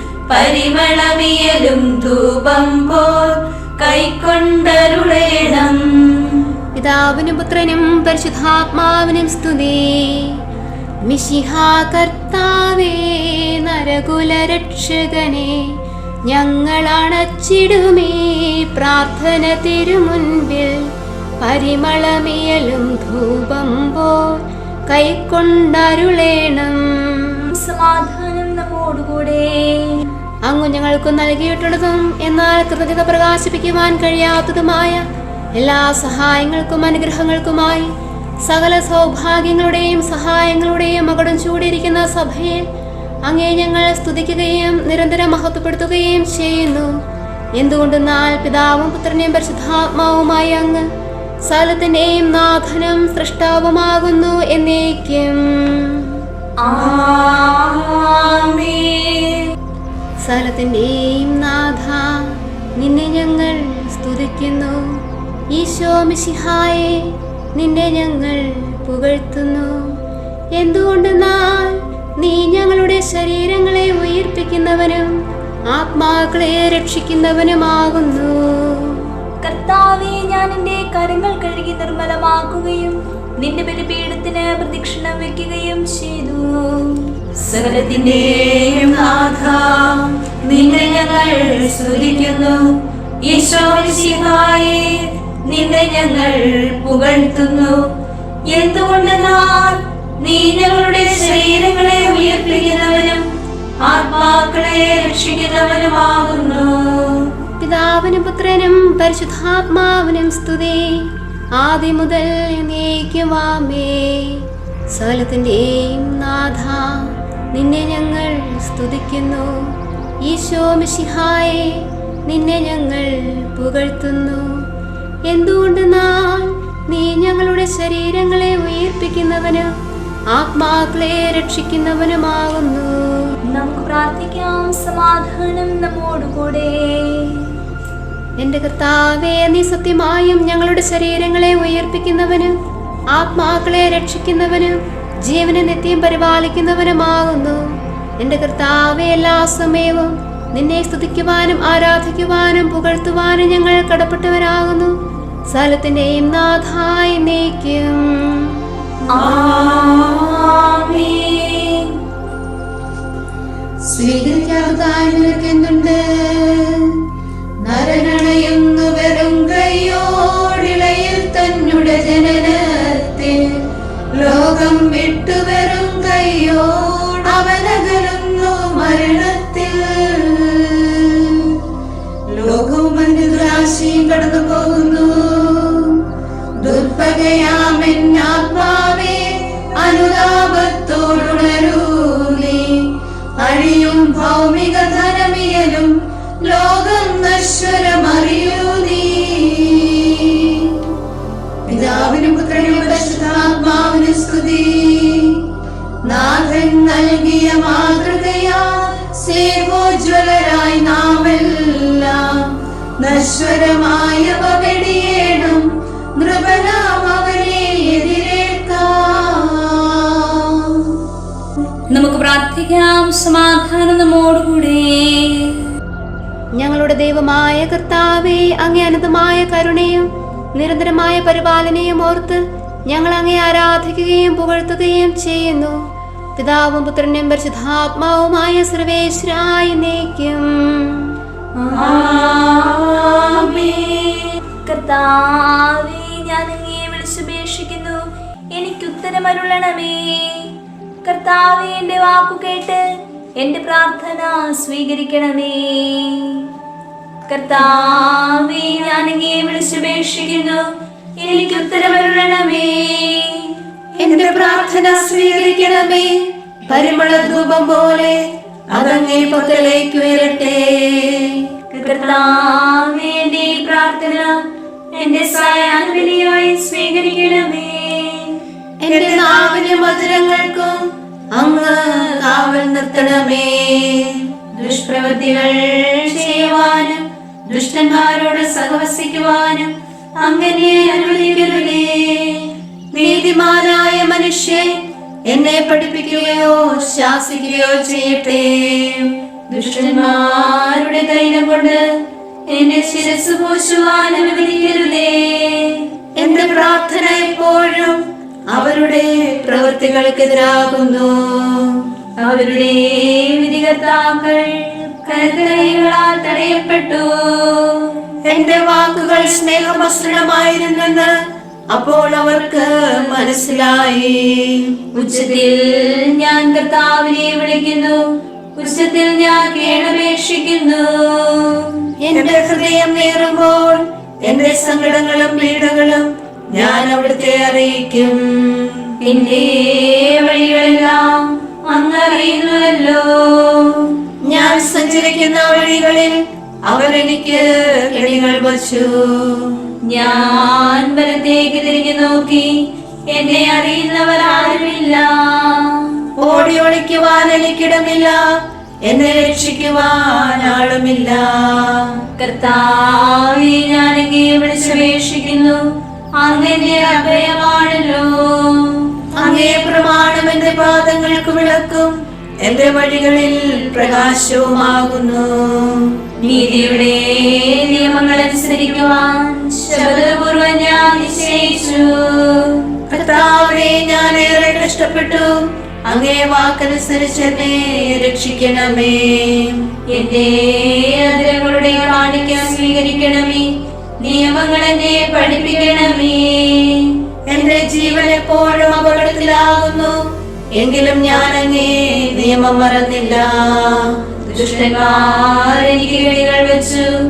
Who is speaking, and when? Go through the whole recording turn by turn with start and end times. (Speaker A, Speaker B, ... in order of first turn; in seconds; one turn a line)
Speaker A: 0.3-5.8
Speaker B: 6.8-10.3
Speaker B: 11.1-15.6
Speaker B: 16.3-20.8
Speaker B: 21.4-24.2
Speaker B: 24.9-27.2
Speaker C: 27.5-30.1
Speaker B: 30.5-35.0
Speaker B: 35.5-37.9
Speaker B: 38.5-42.6
Speaker B: 43.3-46.9
Speaker B: 47.6-50.8
Speaker B: 51.5-56.1
Speaker C: 56.6-57.0
Speaker A: 56.7-59.2
Speaker B: 60.2-62.3
Speaker B: 62.8-64.8
Speaker B: 65.5-67.0
Speaker B: 67.5-69.7
Speaker B: 70.6-75.1
Speaker B: 75.7-79.0
Speaker C: 79.4-88.3
Speaker A: 87.6-92.6
Speaker A: 93.3-97.8
Speaker C: 98.6-99.8
Speaker A: 98.6-99.5
Speaker A: 100.2-103.2
Speaker A: 103.8-107.3
Speaker B: 107.6-111.0
Speaker B: 111.6-114.4
Speaker B: 114.9-119.5
Speaker B: 120.3-124.5
Speaker B: 125.3-129.7
Speaker B: 130.3-133.3
Speaker C: 133.5-137.5
Speaker B: 138.4-142.5
Speaker B: 143.1-147.6
Speaker B: 148.2-154.9
Speaker B: 155.5-158.4
Speaker A: 159.1-161.6
Speaker A: 163.9-167.0
Speaker A: 167.6-173.4
Speaker A: 174.2-181.6
Speaker A: 182.3-186.0
Speaker A: 186.6-200.8
Speaker A: 201.7-205.4
Speaker A: 206.1-221.0
Speaker C: 221.9-225.7
Speaker B: 226.6-235.8
Speaker B: 236.4-241.0
Speaker A: 241.7-244.2
Speaker C: 241.8-242.3
Speaker C: 244.7-248.0
Speaker C: 248.5-250.5
Speaker C: 251.0-252.8
Speaker C: 253.4-256.5
Speaker C: 257.3-260.6
Speaker C: 261.2-263.6
Speaker A: 264.0-268.2
Speaker A: 268.8-271.3
Speaker C: 271.7-274.3
Speaker C: 274.9-278.4
Speaker A: 278.9-280.8
Speaker B: 278.9-279.3
Speaker A: 281.3-285.5
Speaker C: 284.6-285.5
Speaker A: 286.1-289.7
Speaker A: 290.2-291.9
Speaker A: 292.9-294.7
Speaker A: 295.3-299.2
Speaker C: 299.5-301.8
Speaker C: 302.5-305.9
Speaker A: 306.2-308.0
Speaker A: 308.5-311.8
Speaker C: 312.2-318.0
Speaker A: 318.3-321.1
Speaker A: 321.7-324.8
Speaker C: 324.9-328.0
Speaker C: 328.6-331.8
Speaker A: 332.1-339.2
Speaker C: 339.0-343.9
Speaker A: 344.3-346.2
Speaker A: 346.7-349.7
Speaker C: 349.9-352.5
Speaker C: 353.1-356.0
Speaker A: 356.2-358.2
Speaker A: 358.9-362.0
Speaker C: 362.2-365.6
Speaker C: 366.2-368.9
Speaker A: 369.2-376.0
Speaker C: 376.2-382.8
Speaker A: 382.9-385.3
Speaker A: 385.9-389.7
Speaker C: 389.9-393.5
Speaker C: 394.0-396.9
Speaker A: 397.3-400.0
Speaker A: 400.6-404.1
Speaker C: 404.2-406.9